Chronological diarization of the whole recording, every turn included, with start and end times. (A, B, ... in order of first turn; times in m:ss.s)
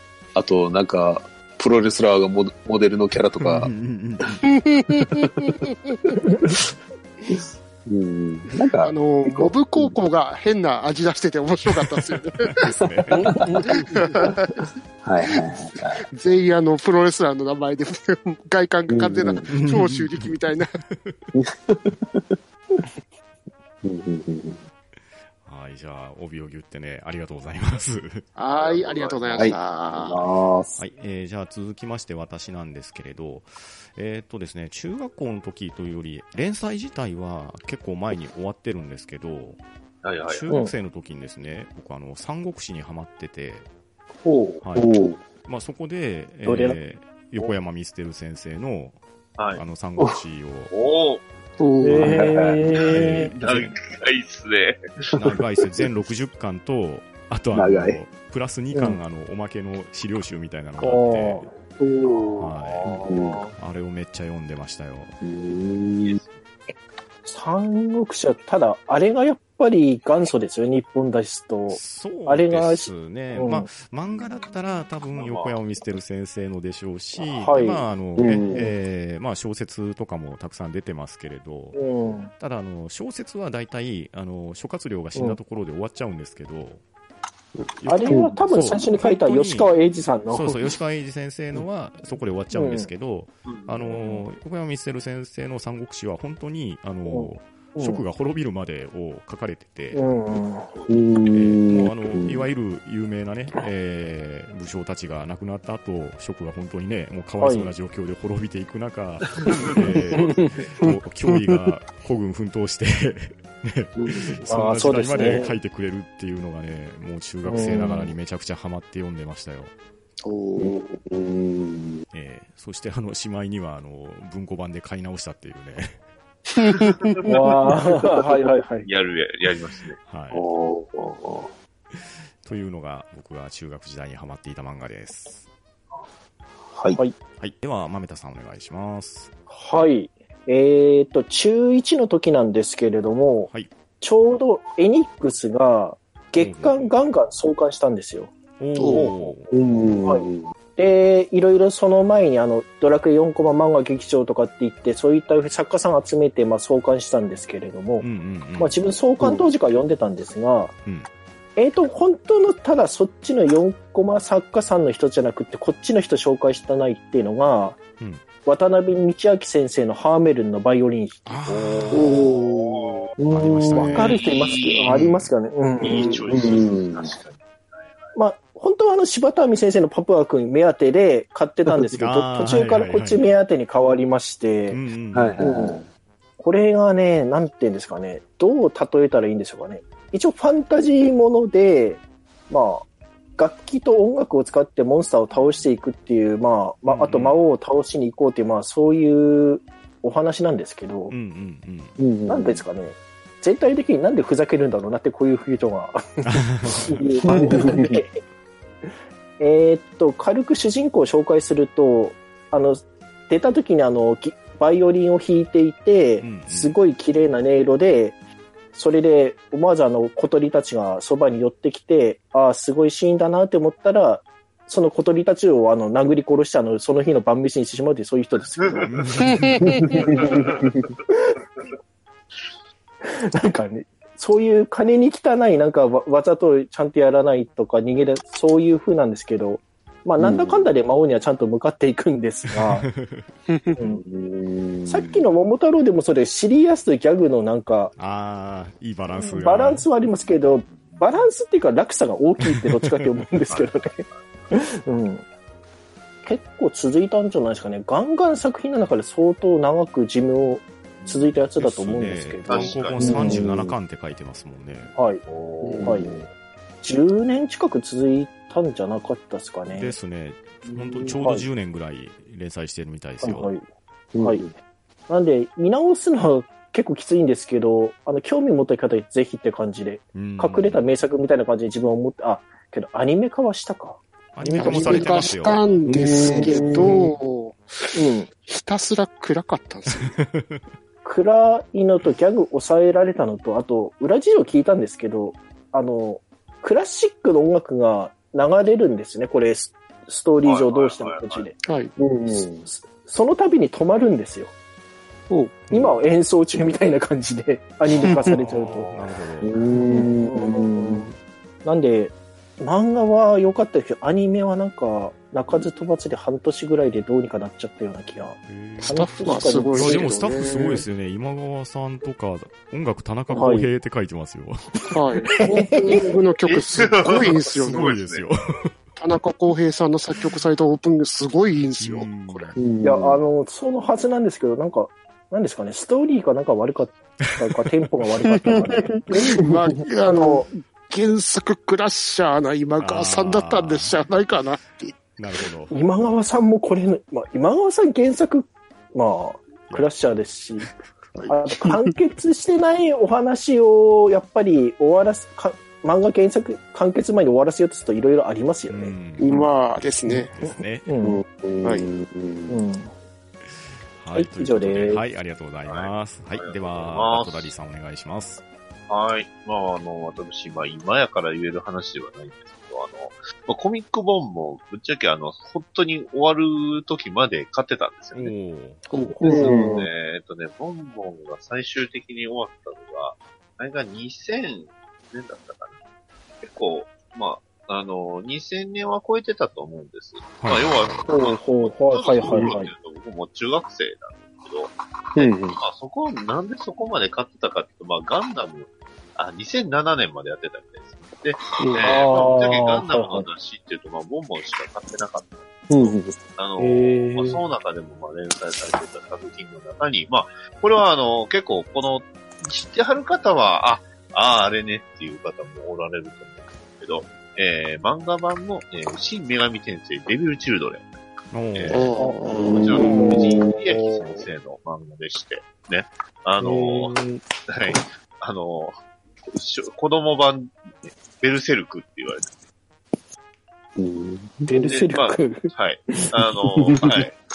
0:00.3-0:03.7 A
0:03.4-0:04.5 B
0:04.9-0:05.9 C
0:06.3-0:06.6 D
0:07.3-0:09.9 A
0:08.8-0:12.6 C
0:12.5-0:13.4 B
0:13.2-0:13.7 D
0:13.3-0:13.6 A
0:13.6-0:14.7 C
0:15.0-0:16.0 A
0:16.1-0:20.7 C
0:18.9-0:19.5 A
0:19.5-0:21.2 B
0:21.3-0:22.3 A
0:23.8-0:24.6 A
0:25.4-0:28.2 B
0:28.4-0:30.2 C
0:28.5-0:29.6 E
0:29.4-0:30.8 A
0:30.8-0:39.6 B
0:40.0-0:40.5 E
0:40.3-0:43.7 B
0:44.2-0:45.2 A
0:44.6-0:44.9 B
0:45.4-0:49.0 B
0:46.4-0:46.8 D
0:49.5-0:50.7 B
0:50.7-0:51.2 E
0:51.6-0:52.2 C
0:51.8-0:53.3 D
0:52.0-0:52.6 A
0:52.8-0:53.8 B
0:52.9-0:54.8 E
0:55.1-1:01.5 B
0:57.5-0:58.0 A
0:58.7-0:59.0 D
1:00.8-1:01.5 D
1:01.8-1:02.4 C
1:02.2-1:03.5 E
1:02.4-1:03.0 B
1:03.0-1:03.4 A
1:03.5-1:05.1 B
1:05.2-1:06.2 A
1:06.0-1:06.4 E
1:07.2-1:13.7 D
1:11.7-1:21.8 B
1:15.1-1:15.6 E
1:17.3-1:17.8 D
1:18.2-1:18.6 A
1:18.5-1:18.7 D
1:21.7-1:22.3 D
1:22.4-1:26.8 B
1:27.8-1:29.7 B
1:27.8-1:30.7 D
1:30.3-1:40.0 B
1:32.5-1:32.9 D
1:33.5-1:33.8 E
1:34.0-1:34.2 D
1:37.1-1:38.0 D
1:39.9-1:40.7 D
1:40.9-1:42.5 A
1:41.3-1:59.7 B
1:47.4-1:47.7 D
1:50.1-1:50.6 D
1:54.0-1:54.3 A
1:54.4-1:55.5 D
1:57.4-1:58.1 D
2:00.2-2:00.8 C
2:00.6-2:02.0 A
2:02.1-2:06.0 B
2:07.2-2:08.9 D
2:08.8-2:10.0 E
2:10.0-2:10.4 B
2:10.3-2:11.5 A
2:12.4-2:15.5 B
2:16.7-2:17.0 A
2:17.4-2:19.3 B
2:19.5-2:23.5 D
2:24.0-2:28.3 D
2:26.4-2:26.9 B
2:28.6-2:29.5 B
2:28.8-2:29.1 C
2:29.5-2:30.5 A
2:30.0-2:40.7 D
2:38.0-2:38.8 B
2:39.2-2:39.5 A
2:41.6-2:47.8 D
2:48.4-2:51.4 D
2:51.2-2:52.2 B
2:51.5-2:53.1 E
2:52.0-2:52.7 C
2:53.2-2:56.2 D
2:53.3-2:54.2 B
2:53.7-2:55.0 E
2:54.9-2:55.3 B
2:55.8-2:58.2 E
2:56.0-2:57.1 A
2:58.1-3:04.8 D
3:02.0-3:03.3 B
3:04.7-3:05.4 B
3:05.1-3:05.8 A
3:05.4-3:05.8 D
3:06.4-3:12.8 D
3:13.4-3:21.1 D
3:16.8-3:17.4 B
3:21.1-3:22.0 B
3:22.0-3:22.6 A
3:22.2-3:28.2 D
3:26.2-3:27.0 B
3:27.2-3:28.0 A
3:29.4-3:38.2 D
3:36.2-3:36.8 B
3:38.7-3:49.0 D
3:48.6-3:49.0 E
3:48.8-3:49.7 B
3:49.4-3:49.8 C
3:49.7-3:50.4 D
3:49.9-3:50.7 A
3:50.1-3:50.8 E
3:51.1-3:51.4 D
3:53.0-4:02.9 D
4:00.2-4:00.7 A
4:02.5-4:03.3 B
4:03.5-4:03.8 C
4:03.8-4:04.0 D
4:03.8-4:05.2 A
4:04.8-4:07.9 D
4:08.0-4:09.8 B
4:09.1-4:15.2 D
4:12.4-4:13.0 B
4:13.5-4:14.3 E
4:16.2-4:23.5 D
4:21.0-4:21.3 E
4:21.6-4:24.9 B
4:22.5-4:23.3 E
4:23.0-4:23.7 A
4:24.9-4:25.2 D
4:25.2-4:26.0 E
4:25.6-4:26.2 A
4:25.8-4:26.1 D
4:26.8-4:29.9 D
4:29.7-4:33.5 B
4:30.7-4:31.2 A
4:31.2-4:31.4 D
4:33.2-4:33.6 D
4:34.1-4:34.5 A
4:34.2-4:34.5 D
4:35.1-4:45.3 D
4:40.1-4:40.8 B
4:44.3-4:45.8 B
4:44.5-4:50.2 C
4:45.9-4:47.0 A
4:46.2-4:46.7 D
4:47.9-4:48.3 D
4:49.9-4:50.6 B
4:51.0-5:01.6 D
5:00.4-5:01.5 E
5:01.6-5:01.9 C
5:02.0-5:02.7 A
5:02.3-5:04.5 D
5:05.3-5:05.6 C
5:05.7-5:06.0 B
5:05.7-5:08.9 D
5:08.0-5:08.4 C
5:08.3-5:09.5 B
5:09.4-5:11.1 A
5:09.8-5:11.1 D
5:11.6-5:20.1 D
5:18.5-5:19.0 B
5:18.9-5:20.8 C
5:19.7-5:24.8 B
5:23.3-5:23.7 D
5:24.9-5:27.9 C
5:25.3-5:26.0 D
5:26.4-5:28.3 E
5:27.1-5:28.7 B
5:29.0-5:32.6 C
5:31.8-5:32.6 B
5:32.6-5:33.2 A
5:32.8-5:40.5 D
5:37.2-5:37.7 B
5:38.3-5:45.0 C
5:42.8-5:44.0 B
5:45.2-5:45.7 B
5:45.7-5:50.7 D
5:51.2-5:51.7 C
5:51.3-5:59.0 D
5:58.7-6:00.9 B
5:59.2-6:00.3 C
6:00.4-6:01.2 D
6:01.0-6:02.6 A
6:01.6-6:01.9 C
6:02.5-6:02.9 D
6:04.0-6:08.4 B
6:04.1-6:05.0 D
6:05.6-6:07.5 E
6:08.9-6:18.3 E
6:18.1-6:19.1 B
6:18.9-6:19.6 C
6:19.2-6:19.9 A
6:19.3-6:19.6 D
6:19.3-6:25.8 E
6:26.4-6:45.4 E
6:30.4-6:31.1 B
6:31.1-6:32.7 D
6:35.2-6:35.6 A
6:41.8-6:43.3 D
6:45.7-6:46.2 A
6:46.3-7:00.9 E
6:46.6-6:47.4 D
7:01.3-7:01.9 B
7:01.5-7:06.9 E
7:01.7-7:02.8 C
7:02.0-7:04.1 D
7:02.3-7:03.5 A
7:07.5-7:08.8 E
7:09.3-7:12.3 E
7:13.8-7:14.5 A
7:14.5-7:16.1 D
7:14.6-7:17.2 E